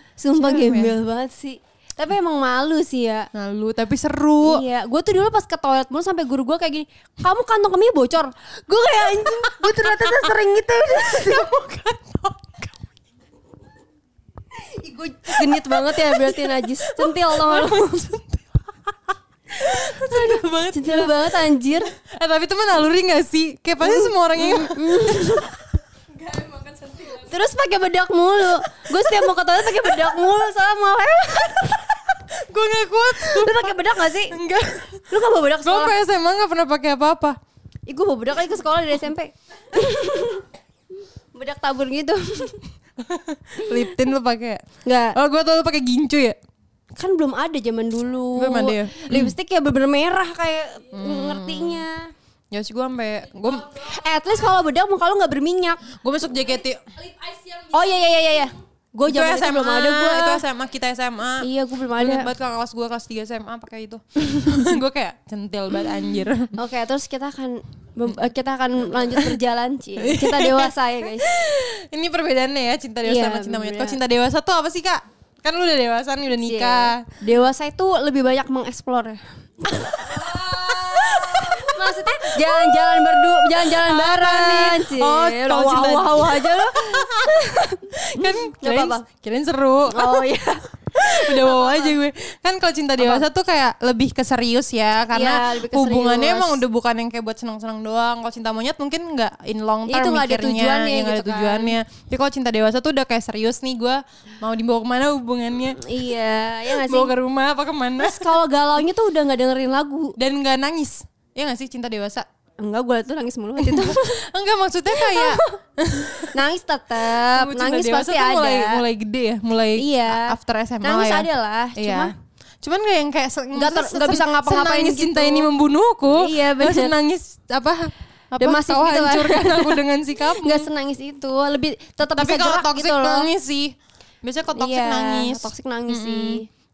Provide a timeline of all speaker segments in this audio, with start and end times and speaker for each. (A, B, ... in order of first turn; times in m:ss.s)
0:00.2-0:03.3 A
0:00.3-0:01.0 B
0:03.3-0:04.6 B
0:04.4-0:11.5 A
0:09.2-0:10.3 B
0:11.0-0:12.7 B
0:14.8-0:18.1 A
0:15.3-0:18.6 B
0:19.6-0:25.5 B
0:19.7-0:21.9 A
0:23.8-0:25.6 A
0:26.2-0:27.3 B
0:27.1-0:32.0 A
0:32.3-0:35.1 B
0:33.2-0:34.4 A
0:35.1-0:36.0 A
0:35.6-0:37.4 B
0:37.9-0:40.4 A
0:41.3-0:42.6 A
0:43.0-0:46.4 B
0:44.8-0:45.2 A
0:47.0-0:52.1 A
0:48.4-0:49.4 B
0:50.9-0:51.8 B
0:52.5-0:53.8 B
0:53.7-0:55.9 A
0:56.0-0:56.8 B
0:57.7-1:00.4 A
0:59.0-1:06.6 B
1:01.4-1:02.3 A
1:06.6-1:11.4 A
1:09.0-1:09.4 B
1:10.0-1:17.1 B
1:13.0-1:14.0 A
1:16.4-1:29.1 A
1:19.7-1:27.4 B
1:28.0-1:30.3 B
1:29.9-1:32.0 A
1:31.0-1:45.8 B
1:33.0-1:33.3 A
1:35.1-1:36.6 A
1:39.9-1:41.8 A
1:45.8-1:47.1 A
1:46.7-1:48.4 B
1:48.0-1:50.2 A
1:50.2-1:52.3 B
1:52.6-1:54.2 A
1:53.6-1:56.3 B
1:54.9-1:55.6 A
1:56.3-1:58.8 A
1:57.2-2:10.7 B
1:59.8-2:02.1 A
2:03.5-2:05.5 A
2:06.1-2:06.9 A
2:08.4-2:09.8 A
2:10.4-2:13.3 A
2:12.1-2:16.4 B
2:14.5-2:16.5 A